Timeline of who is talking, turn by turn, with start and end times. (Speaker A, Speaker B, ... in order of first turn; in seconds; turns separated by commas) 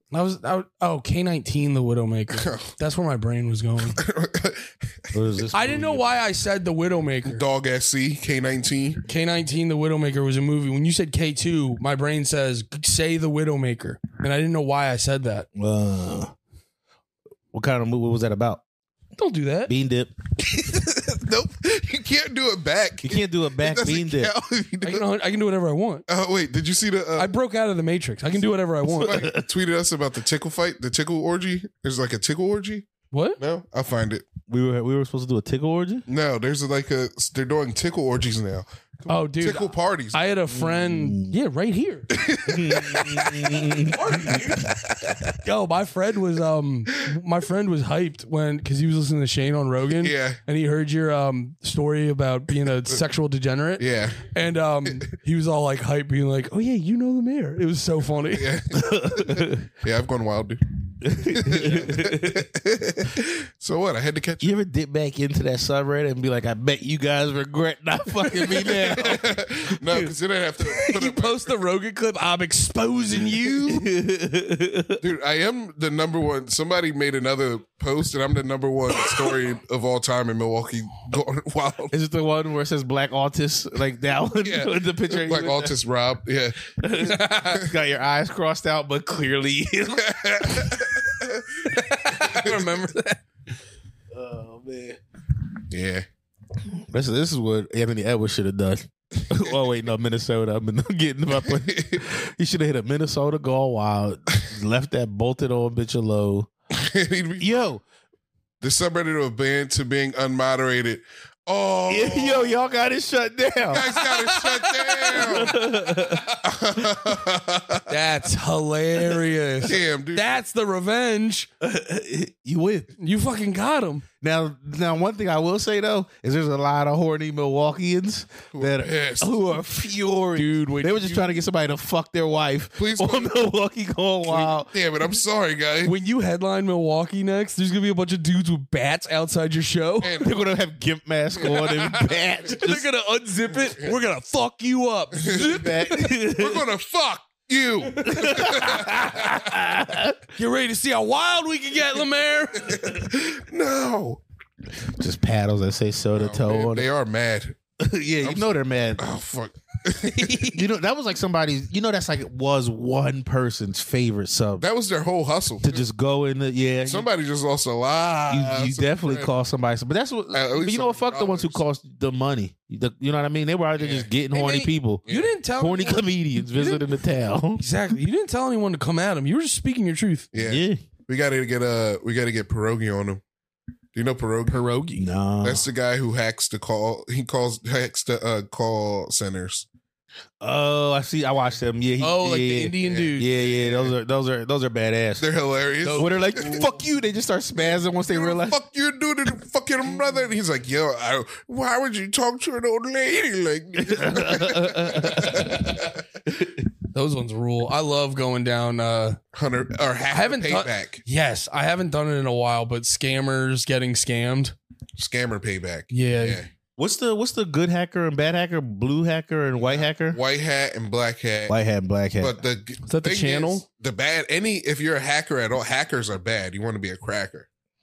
Speaker A: 0.1-4.0, Speaker B: 2.3-2.7, Speaker B: 4.0-5.1, Speaker C: 5.1-6.0, Speaker A: 5.5-7.4, Speaker B: 7.2-9.0, Speaker A: 9.1-15.5, Speaker C: 15.6-16.3, Speaker C: 17.5-18.6, Speaker A: 19.2-19.7, Speaker C: 19.7-20.1, Speaker B: 20.4-25.1, Speaker C: 23.0-24.3, Speaker A: 24.8-26.0, Speaker B: 26.1-27.3, Speaker A: 27.2-29.2, Speaker C: 29.0-29.4, Speaker B: 29.0-32.9, Speaker A: 33.1-33.4, Speaker B: 33.4-34.2, Speaker C: 34.5-36.0, Speaker B: 36.1-40.2, Speaker A: 39.1-42.1, Speaker C: 40.5-41.3, Speaker B: 42.1-43.6, Speaker C: 42.4-44.7, Speaker A: 43.6-44.7, Speaker A: 45.4-58.5, Speaker B: 50.0-50.4, Speaker B: 53.8-54.3, Speaker B: 58.3-64.6, Speaker C: 58.7-59.7, Speaker C: 61.0-62.5, Speaker C: 64.4-70.1, Speaker B: 68.5-71.5, Speaker A: 70.7-73.9, Speaker C: 73.6-75.0, Speaker B: 75.0-81.9, Speaker C: 81.9-85.7, Speaker B: 84.4-87.7, Speaker C: 86.8-90.8, Speaker A: 87.0-87.5, Speaker B: 90.0-91.5, Speaker A: 91.7-93.2, Speaker C: 94.1-95.0, Speaker B: 95.7-96.0, Speaker C: 96.7-106.5, Speaker B: 101.3-102.0, Speaker B: 106.7-107.7, Speaker C: 107.4-107.8, Speaker B: 108.6-112.7, Speaker C: 111.9-113.9, Speaker B: 113.7-115.6, Speaker A: 114.0-116.2, Speaker C: 115.1-116.3, Speaker B: 116.4-117.8, Speaker A: 117.9-121.5, Speaker B: 119.6-120.4, Speaker C: 121.6-122.9, Speaker A: 123.0-124.0, Speaker C: 124.2-134.7, Speaker B: 128.5-129.4, Speaker A: 130.3-131.4, Speaker B: 132.8-133.4, Speaker B: 134.3-135.9, Speaker A: 135.8-140.1, Speaker B: 140.0-140.3, Speaker C: 140.2-142.8, Speaker B: 141.4-142.1, Speaker A: 142.5-146.4, Speaker B: 145.1-149.4, Speaker C: 145.3-146.6, Speaker A: 148.0-148.9, Speaker C: 148.0-150.2, Speaker A: 150.3-152.8, Speaker B: 152.6-154.2, Speaker C: 155.0-156.8, Speaker B: 156.1-157.6, Speaker C: 157.8-159.0, Speaker B: 158.2-160.5, Speaker C: 160.2-164.6, Speaker B: 164.6-165.8, Speaker C: 165.6-167.1, Speaker B: 166.8-169.3, Speaker C: 168.3-175.0, Speaker B: 170.3-171.6, Speaker B: 173.8-174.1, Speaker A: 174.3-176.8, Speaker B: 175.1-175.3, Speaker C: 175.6-177.6, Speaker A: 177.6-180.3, Speaker B: 180.3-183.2, Speaker C: 180.3-180.8, Speaker B: 183.9-184.6, Speaker A: 184.5-185.1, Speaker C: 184.9-185.7, Speaker B: 185.4-189.7, Speaker C: 190.4-195.2, Speaker A: 192.0-193.4, Speaker B: 192.8-193.9, Speaker B: 195.2-196.7, Speaker A: 195.8-196.7, Speaker C: 195.9-198.6, Speaker B: 198.1-206.0, Speaker C: 203.8-205.7, Speaker C: 206.3-206.6, Speaker A: 206.9-209.2, Speaker B: 209.3-211.0, Speaker A: 210.1-214.5, Speaker B: 215.0-216.5, Speaker A: 215.9-216.4, Speaker C: 216.8-220.2, Speaker B: 219.6-221.6, Speaker C: 221.5-222.4, Speaker B: 222.2-227.5, Speaker A: 222.8-223.6